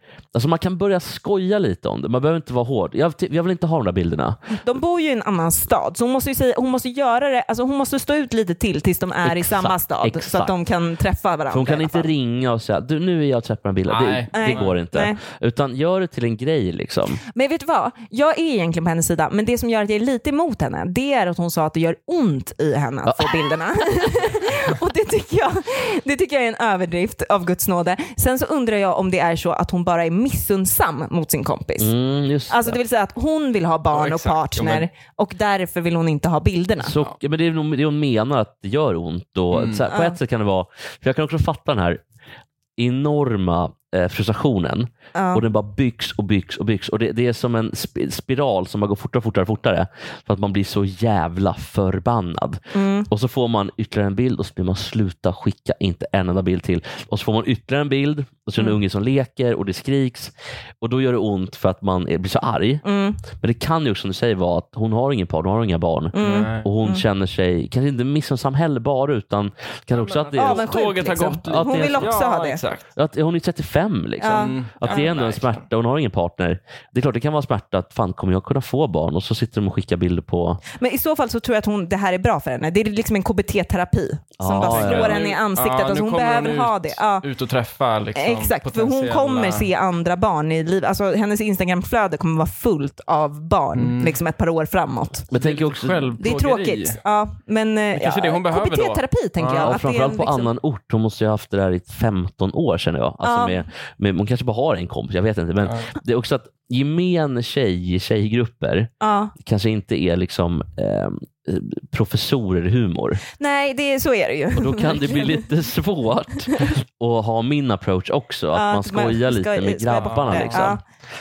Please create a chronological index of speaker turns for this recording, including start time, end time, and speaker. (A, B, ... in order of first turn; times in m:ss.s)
0:00.3-0:04.4 A
0:04.6-0:12.1 B
0:09.2-0:10.5 A
0:11.5-0:17.2 A
0:13.9-0:14.8 C
0:14.3-0:15.2 B
0:17.3-0:31.9 B
0:23.0-0:23.3 A
0:31.8-0:32.8 A
0:32.5-0:36.9 B
0:33.9-0:34.9 C
0:36.8-0:42.0 A
0:39.5-0:39.8 C
0:39.9-0:40.2 B
0:42.8-1:10.8 A
0:45.1-0:45.4 B
0:52.7-0:53.1 B
1:02.8-1:03.2 B
1:06.1-1:07.0 B
1:06.2-1:06.7 C
1:09.9-1:12.9 C
1:10.4-1:12.6 B
1:11.4-1:12.2 A
1:12.9-1:20.6 A
1:14.2-1:15.1 B
1:14.3-1:15.7 C
1:20.7-1:27.2 B
1:24.4-1:25.2 A
1:24.5-1:29.7 C
1:28.1-1:35.3 B
1:33.8-1:34.2 C
1:35.3-1:36.1 A
1:35.4-1:37.0 C
1:36.2-1:40.5 B
1:37.9-1:39.8 C
1:39.6-1:53.2 A
1:43.2-1:43.6 B
1:45.6-1:45.9 C
1:49.0-1:49.3 B
1:53.4-1:55.4 B
1:54.6-2:00.8 A
1:58.5-2:00.8 B
2:00.0-2:00.7 C